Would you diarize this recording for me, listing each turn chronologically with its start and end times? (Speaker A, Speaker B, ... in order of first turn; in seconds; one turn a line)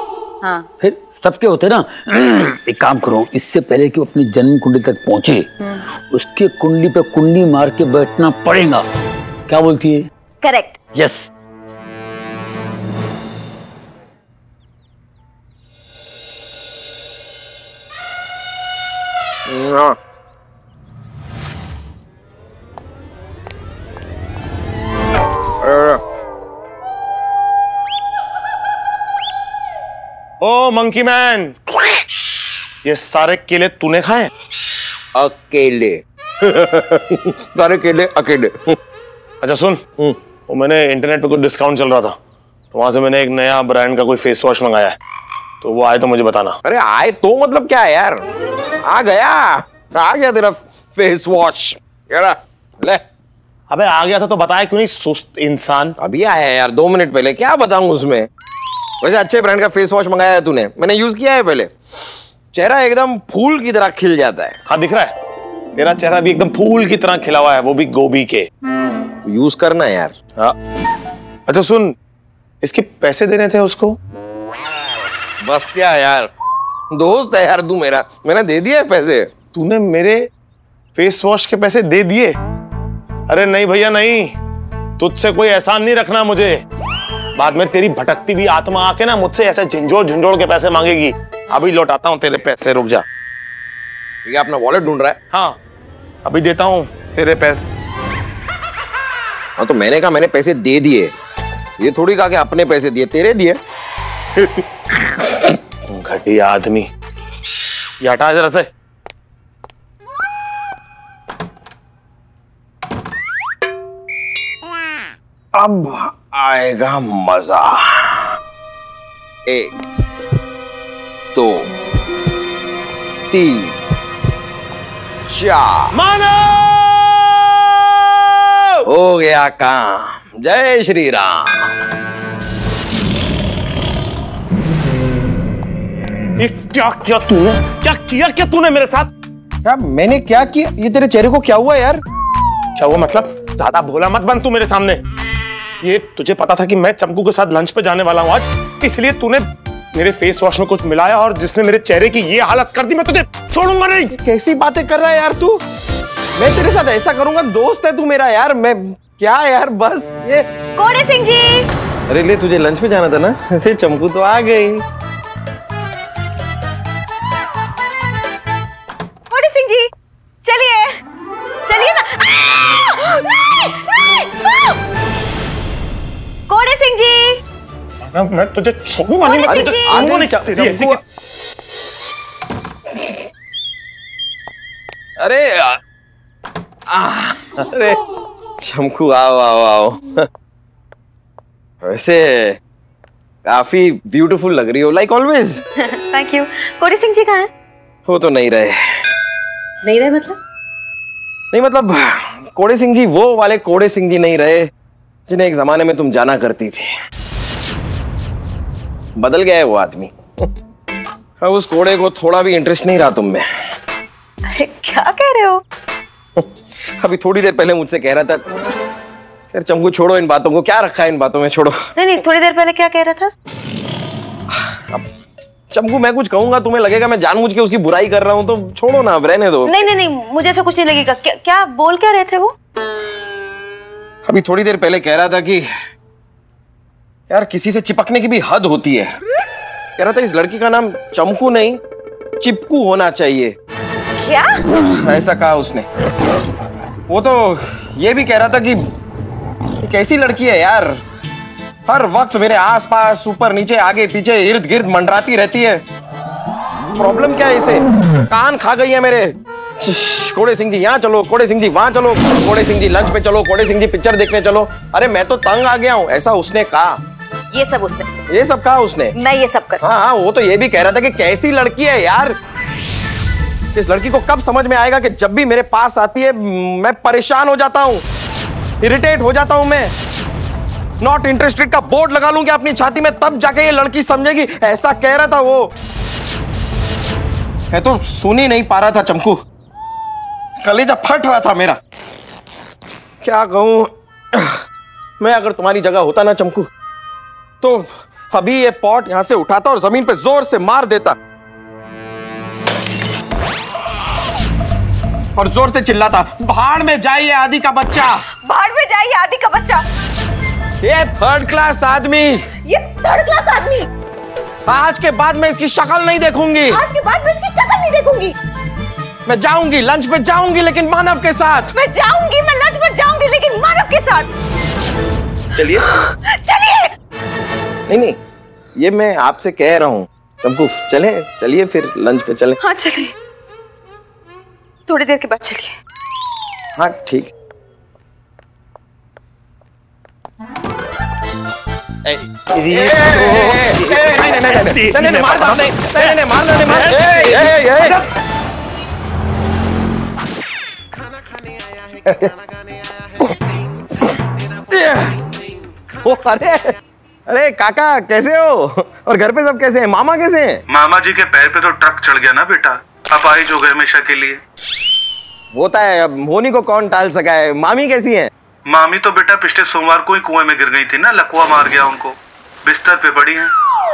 Speaker A: 0.4-0.7
Speaker B: 0.8-5.5
Speaker B: 6.1-8.9
Speaker B: 9.5-10.1
Speaker A: 10.4-10.8
Speaker B: 10.9-11.3
Speaker C: 19.5-19.9
Speaker C: 25.6-26.0
Speaker D: 30.4-31.6
Speaker D: 32.8-34.3
Speaker C: 35.1-38.8
Speaker D: 39.4-39.8
Speaker D: 40.5-42.2
Speaker D: 42.7-45.0
Speaker D: 45.6-46.6
Speaker C: 46.6-48.2
Speaker C: 48.8-53.0
Speaker D: 53.7-56.0
Speaker C: 56.0-58.3
Speaker C: 59.0-61.7
Speaker C: 62.5-64.6
Speaker D: 64.7-65.1
Speaker D: 65.8-68.5
Speaker C: 69.2-70.2
Speaker D: 71.5-71.9
Speaker D: 72.6-74.0
Speaker C: 75.4-76.3
Speaker C: 76.9-79.3
Speaker D: 79.5-80.2
Speaker D: 81.0-82.4
Speaker D: 83.3-84.3
Speaker D: 85.0-86.6
Speaker D: 87.4-93.0
Speaker C: 94.3-95.2
Speaker D: 95.3-95.6
Speaker D: 96.2-97.7
Speaker C: 99.6-101.1
Speaker C: 101.8-103.6
Speaker D: 105.9-106.9
Speaker D: 108.0-108.7
Speaker C: 115.5-118.3
Speaker C: 121.3-121.7
Speaker C: 123.3-123.7
Speaker C: 125.3-125.9
Speaker D: 125.9-127.4
Speaker C: 128.9-131.5
Speaker D: 136.4-139.1
Speaker C: 139.7-142.0
Speaker D: 142.8-145.0
Speaker D: 145.8-154.1
Speaker C: 154.2-155.6
Speaker C: 156.4-160.4
Speaker A: 160.8-161.7
Speaker C: 162.1-164.8
Speaker A: 169.3-169.9
Speaker A: 170.4-170.9
Speaker A: 171.7-174.8
Speaker A: 176.5-177.4
Speaker D: 178.0-181.0
Speaker A: 179.2-180.1
Speaker C: 179.4-181.0
Speaker C: 185.2-185.8
Speaker C: 186.9-188.0
Speaker C: 188.6-190.2
Speaker C: 191.8-192.6
Speaker C: 193.5-195.6
Speaker A: 195.8-197.5
Speaker C: 198.1-198.8
Speaker A: 199.8-200.4
Speaker C: 201.5-204.7
Speaker C: 205.3-206.9
Speaker C: 209.2-210.1
Speaker C: 211.4-213.4
Speaker A: 214.5-215.6
Speaker C: 217.0-218.4
Speaker C: 219.5-221.8
Speaker A: 222.0-223.3
Speaker C: 224.5-225.0
Speaker C: 225.7-229.7
Speaker A: 229.7-232.5
Speaker C: 234.3-235.7
Speaker C: 237.3-239.1
Speaker C: 240.0-241.8
Speaker C: 242.4-243.5
Speaker A: 244.2-244.6
Speaker C: 244.9-245.9
Speaker C: 247.1-248.8
Speaker C: 249.8-250.9
Speaker C: 251.9-255.8
Speaker C: 257.0-266.9
Speaker A: 267.5-268.1
Speaker C: 268.3-269.1
Speaker A: 269.2-269.8
Speaker C: 269.8-272.4
Speaker C: 273.8-278.0
Speaker C: 278.8-279.9
Speaker C: 281.0-285.7
Speaker C: 287.7-289.4
Speaker C: 290.6-291.8
Speaker C: 293.2-294.5
Speaker C: 295.2-296.7
Speaker C: 297.6-301.2
Speaker C: 305.4-308.2
Speaker A: 308.4-309.9
Speaker C: 310.8-312.4
Speaker A: 312.7-313.9
Speaker C: 314.7-316.8
Speaker A: 316.7-318.3
Speaker C: 319.3-321.7
Speaker A: 321.7-324.3
Speaker C: 325.6-325.8
Speaker A: 326.1-326.9
Speaker C: 327.9-328.2
Speaker C: 328.8-332.6
Speaker A: 332.6-333.1
Speaker A: 334.9-335.7
Speaker C: 336.8-337.3
Speaker C: 342.1-347.9
Speaker D: 342.5-348.0
Speaker C: 354.7-355.1
Speaker C: 356.1-356.7
Speaker C: 357.3-360.6
Speaker E: 360.7-364.4
Speaker C: 365.6-368.3
Speaker E: 368.7-373.5